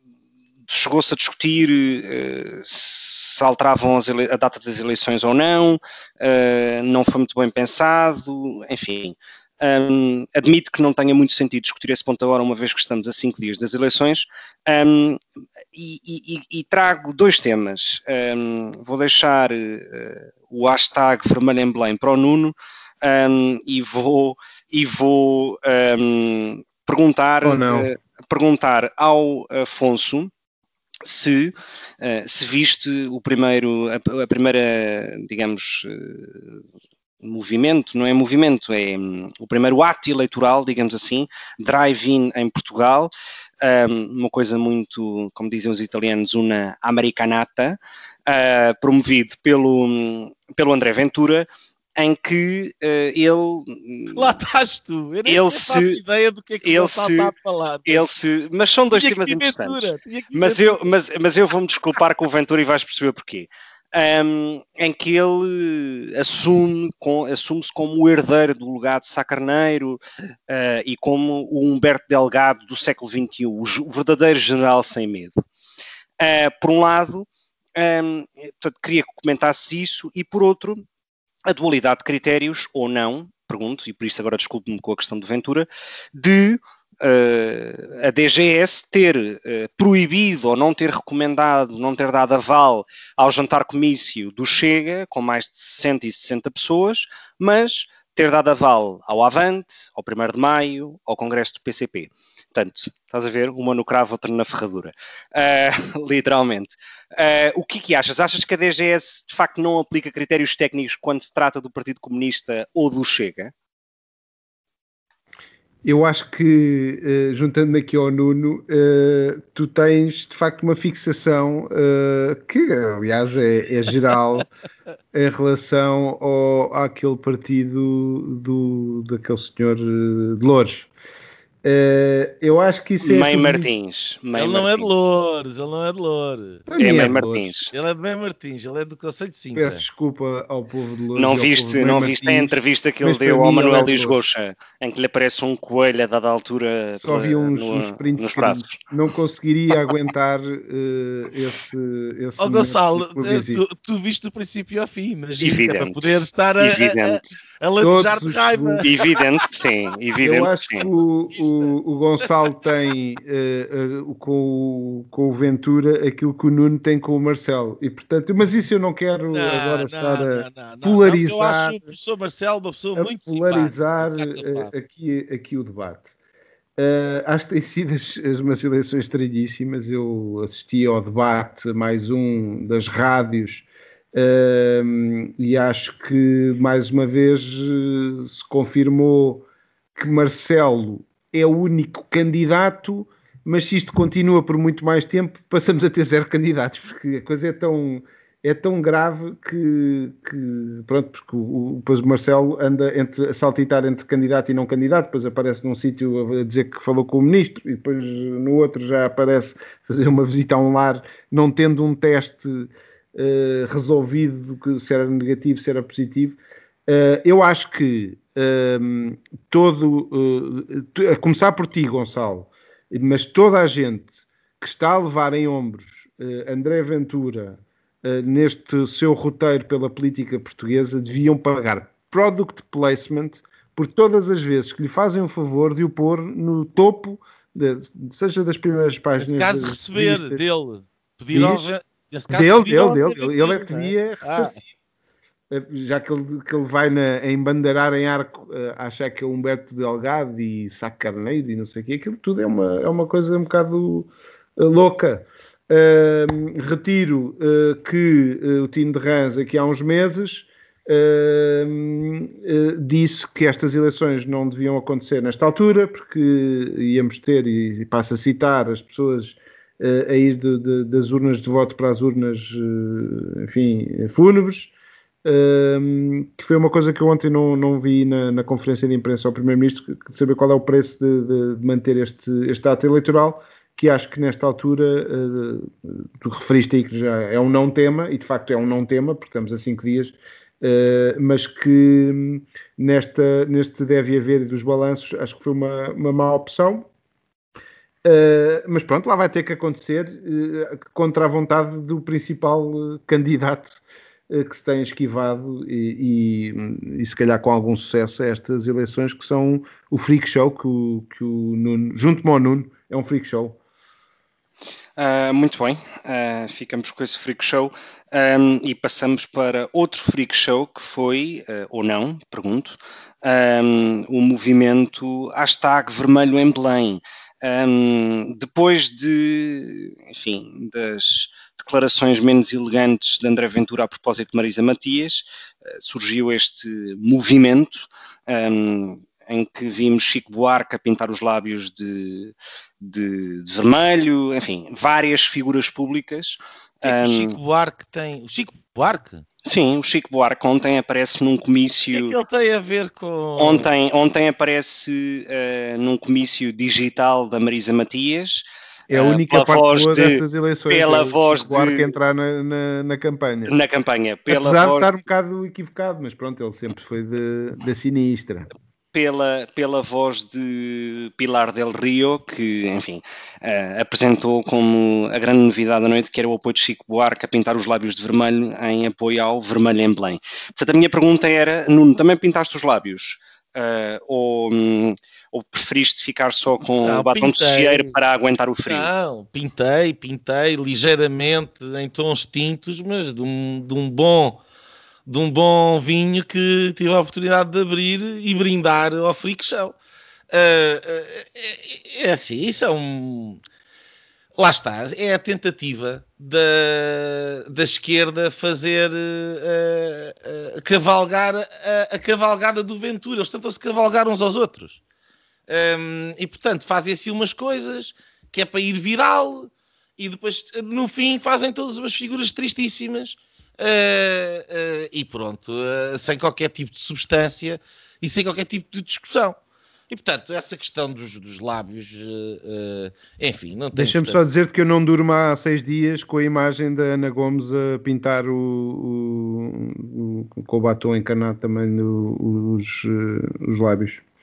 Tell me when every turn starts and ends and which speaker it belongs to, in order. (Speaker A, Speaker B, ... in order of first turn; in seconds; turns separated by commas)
Speaker A: 0.7-15.2, Speaker A: 15.7-30.3, Speaker B: 27.4-27.9, Speaker A: 31.0-36.6, Speaker A: 37.2-54.3, Speaker C: 54.1-58.0, Speaker A: 55.2-56.0, Speaker A: 56.6-57.3, Speaker A: 57.9-75.4, Speaker C: 58.9-60.8, Speaker A: 76.2-80.8, Speaker A: 81.5-113.5, Speaker B: 115.8-124.5, Speaker B: 125.1-130.9, Speaker B: 131.6-133.7, Speaker A: 133.0-134.9, Speaker C: 134.3-136.7, Speaker B: 136.7-137.5, Speaker A: 136.8-137.7, Speaker C: 137.7-139.8, Speaker B: 139.5-144.2, Speaker A: 141.1-148.7, Speaker B: 146.9-153.6, Speaker C: 152.4-159.2, Speaker A: 155.4-157.2, Speaker B: 157.8-158.9, Speaker A: 158.8-160.9, Speaker B: 160.2-171.8, Speaker C: 161.4-161.7, Speaker C: 169.3-174.7, Speaker B: 172.9-176.1, Speaker B: 176.8-240.4, Speaker C: 239.2-244.6, Speaker B: 241.3-241.7, Speaker B: 242.3-244.7, Speaker B: 245.5-274.7, Speaker B: 275.2-296.9, Speaker B: 298.0-313.6, Speaker A: 315.0-347.4, Speaker C: 346.8-349.2, Speaker A: 349.4-352.2, Speaker C: 351.9-353.7, Speaker A: 353.4-361.9, Speaker B: 358.9-363.5, Speaker A: 363.4-364.9, Speaker B: 364.3-368.5, Speaker A: 368.9-388.9, Speaker C: 386.8-387.9, Speaker C: 388.7-394.4, Speaker C: 395.1-399.8, Speaker C: 400.3-403.4, Speaker C: 404.4-414.8, Speaker C: 415.5-429.4, Speaker C: 429.9-434.3, Speaker B: 433.7-444.0